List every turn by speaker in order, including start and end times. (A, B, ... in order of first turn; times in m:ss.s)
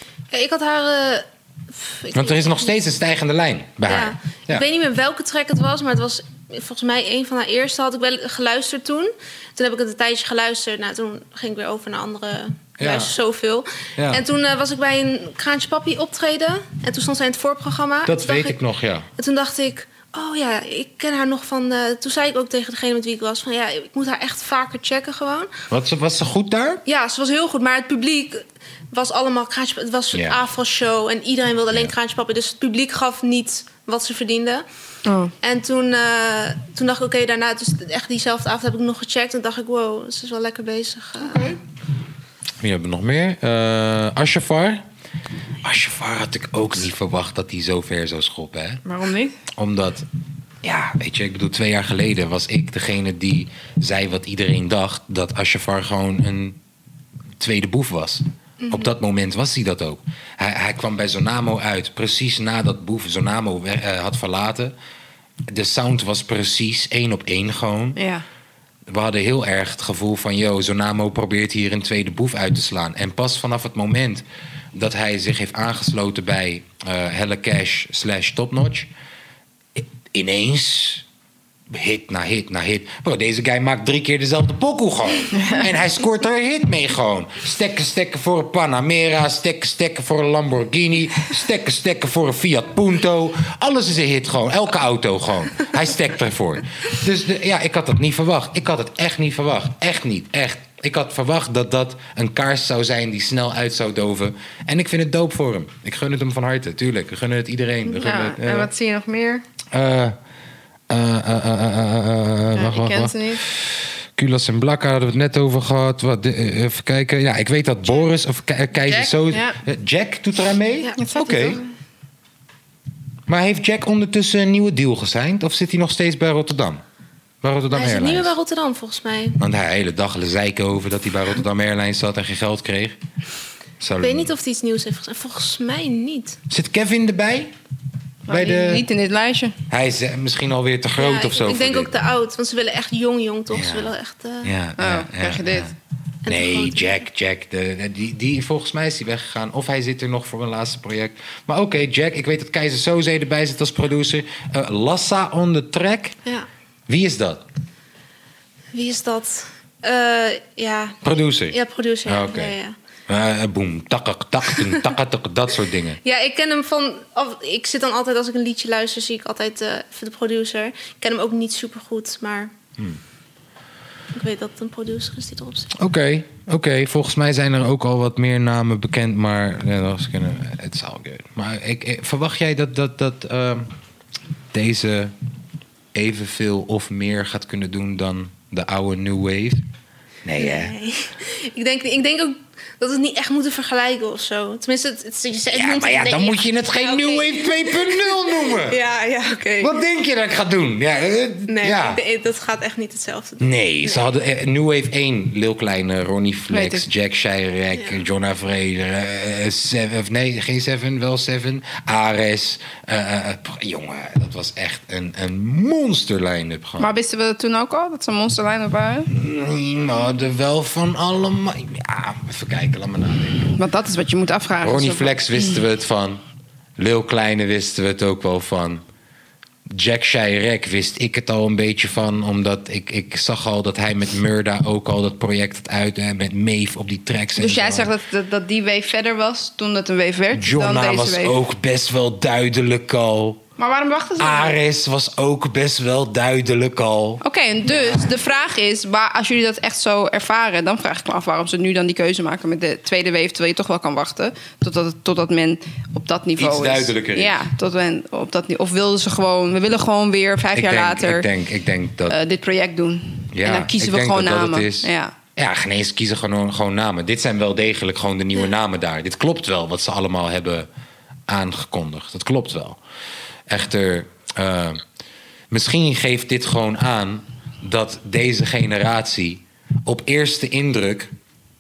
0:00.3-0:02.8 A
0:02.1-0:04.7 B
0:03.9-0:18.6 A
0:12.8-0:13.2 B
0:14.0-0:14.2 B
0:18.1-0:19.1 B
0:19.2-0:25.6 A
0:25.7-0:26.8 B
0:26.9-0:34.6 A
0:30.1-0:30.4 B
0:35.1-0:35.3 C
0:35.4-0:41.6 A
0:41.2-0:41.6 C
0:42.6-0:44.8 B
0:45.6-0:48.8 B
0:48.8-0:49.4 C
0:49.6-0:50.1 B
0:50.6-0:56.6 B
0:57.4-1:04.7 B
0:58.6-0:58.9 A
1:05.5-1:08.0 B
1:08.0-1:08.2 C
1:08.9-1:14.2 B
1:14.8-1:18.9 B
1:19.8-1:21.0 B
1:21.7-1:48.7 B
1:47.9-1:49.4 C
1:49.7-1:50.2 B
1:50.9-2:01.6 B
1:52.6-1:53.4 C
1:58.9-1:59.6 C
2:00.8-2:01.7 A
2:01.0-2:01.6 C
2:03.3-2:06.8 B
2:07.4-2:08.3 B
2:07.7-2:09.4 A
2:09.4-2:13.0 B
2:13.8-2:14.4 B
2:14.0-2:16.4 A
2:16.5-2:17.5 B
2:18.3-2:18.8 B
2:18.3-2:19.6 C
2:19.7-2:22.0 B
2:21.0-2:24.5 A
2:23.5-2:25.7 B
2:24.8-2:25.7 C
2:26.2-2:27.0 A
2:26.3-2:36.2 B
2:36.9-2:37.4 B
2:38.7-2:42.8 A
2:41.0-2:42.6 B
2:43.1-2:46.0 B
2:46.0-2:52.5 A
2:54.1-2:55.7 A
2:55.8-3:03.7 B
3:04.5-3:05.1 B
3:05.9-3:09.6 B
3:10.2-3:10.7 B
3:10.4-3:19.8 A
3:15.5-3:18.8 B
3:19.6-3:22.0 B
3:21.5-3:24.1 A
3:23.4-3:36.9 B
3:26.5-3:26.9 C
3:27.7-3:28.0 A
3:36.8-3:39.1 C
3:39.1-3:43.5 B
3:43.5-3:45.6 C
3:44.6-3:46.2 B
3:46.8-3:48.8 B
3:49.7-3:57.9 B
3:57.4-4:01.4 C
4:00.3-4:03.4 B
4:03.6-4:04.6 C
4:04.2-4:08.1 B
4:07.2-4:21.3 C
4:16.4-4:17.4 B
4:20.5-4:22.2 B
4:22.1-4:25.1 C
4:23.3-4:30.7 B
4:31.3-4:32.8 B
4:33.5-4:34.8 B
4:35.5-4:41.1 B